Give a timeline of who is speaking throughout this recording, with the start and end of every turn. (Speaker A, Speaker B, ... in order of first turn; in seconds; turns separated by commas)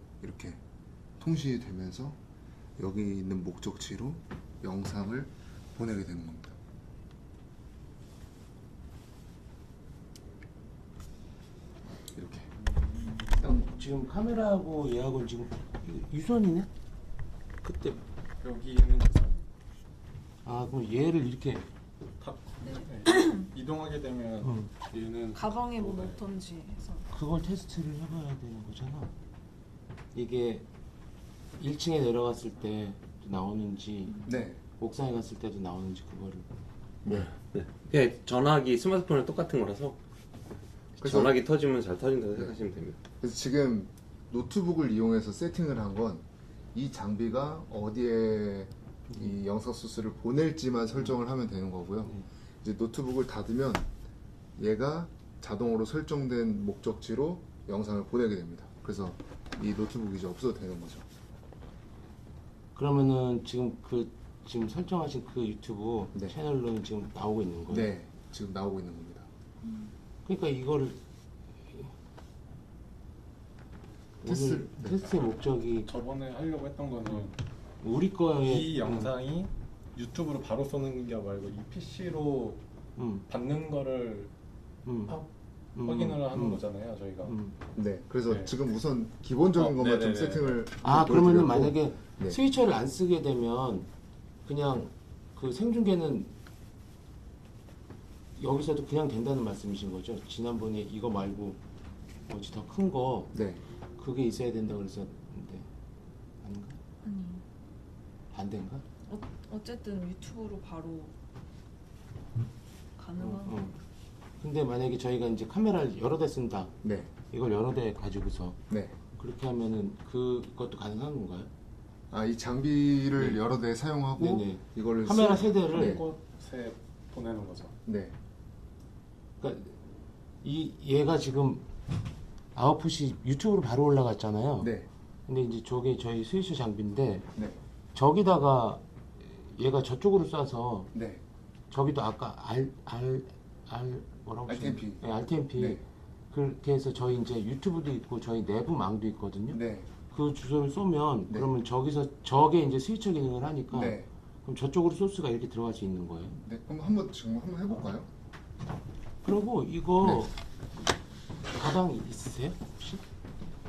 Speaker A: 0.2-0.6, Speaker A: 1.2-2.2, Speaker A: 2.8-6.5, Speaker A: 12.1-12.5, Speaker B: 13.4-16.7, Speaker B: 17.6-18.0, Speaker C: 18.4-19.5, Speaker B: 20.4-21.7, Speaker C: 22.2-26.2, Speaker D: 22.6-23.5, Speaker B: 24.4-24.7, Speaker D: 25.3-27.1, Speaker B: 27.1-29.1, Speaker B: 30.1-30.6, Speaker B: 31.6-36.5, Speaker A: 34.2-34.6, Speaker E: 37.0-40.0, Speaker E: 41.0-43.0, Speaker A: 41.0-41.4, Speaker A: 43.2-53.9, Speaker A: 54.6-61.0, Speaker B: 62.7-67.9, Speaker A: 67.7-69.3, Speaker B: 70.2-71.0, Speaker B: 71.7-71.9, Speaker B: 74.2-75.9, Speaker A: 74.2-75.0, Speaker C: 75.8-77.3, Speaker B: 77.8-79.1, Speaker C: 78.4-82.6, Speaker B: 83.0-83.2, Speaker C: 83.3-84.3, Speaker B: 84.8-85.1, Speaker C: 85.1-87.3, Speaker B: 85.8-86.6, Speaker B: 87.2-87.5, Speaker A: 87.8-92.4, Speaker C: 88.3-88.5, Speaker C: 89.5-90.6, Speaker B: 90.8-93.9, Speaker B: 94.4-96.3, Speaker B: 98.3-101.6, Speaker B: 102.3-103.4, Speaker A: 103.3-103.6, Speaker B: 104.0-105.7, Speaker B: 106.4-106.8, Speaker D: 107.0-107.4, Speaker B: 108.3-108.8, Speaker D: 109.1-111.1, Speaker D: 113.0-113.7, Speaker B: 113.2-113.8, Speaker B: 114.4-116.7, Speaker A: 116.8-117.1, Speaker B: 117.3-118.6, Speaker A: 118.7-119.0, Speaker B: 119.2-121.5, Speaker A: 122.1-126.0, Speaker B: 124.2-126.0, Speaker C: 125.6-127.8, Speaker A: 127.8-128.2, Speaker B: 129.4-129.9, Speaker B: 130.4-131.6, Speaker B: 132.5-134.7, Speaker A: 134.6-134.9, Speaker B: 135.3-137.3, Speaker A: 137.3-137.6, Speaker B: 137.9-140.9, Speaker A: 140.9-141.2, Speaker B: 141.7-156.4, Speaker A: 144.5-145.0, Speaker A: 145.6-145.8, Speaker A: 149.5-149.9, Speaker A: 153.7-154.1, Speaker A: 156.4-158.1, Speaker B: 159.2-160.3, Speaker A: 160.0-160.3, Speaker B: 161.5-163.0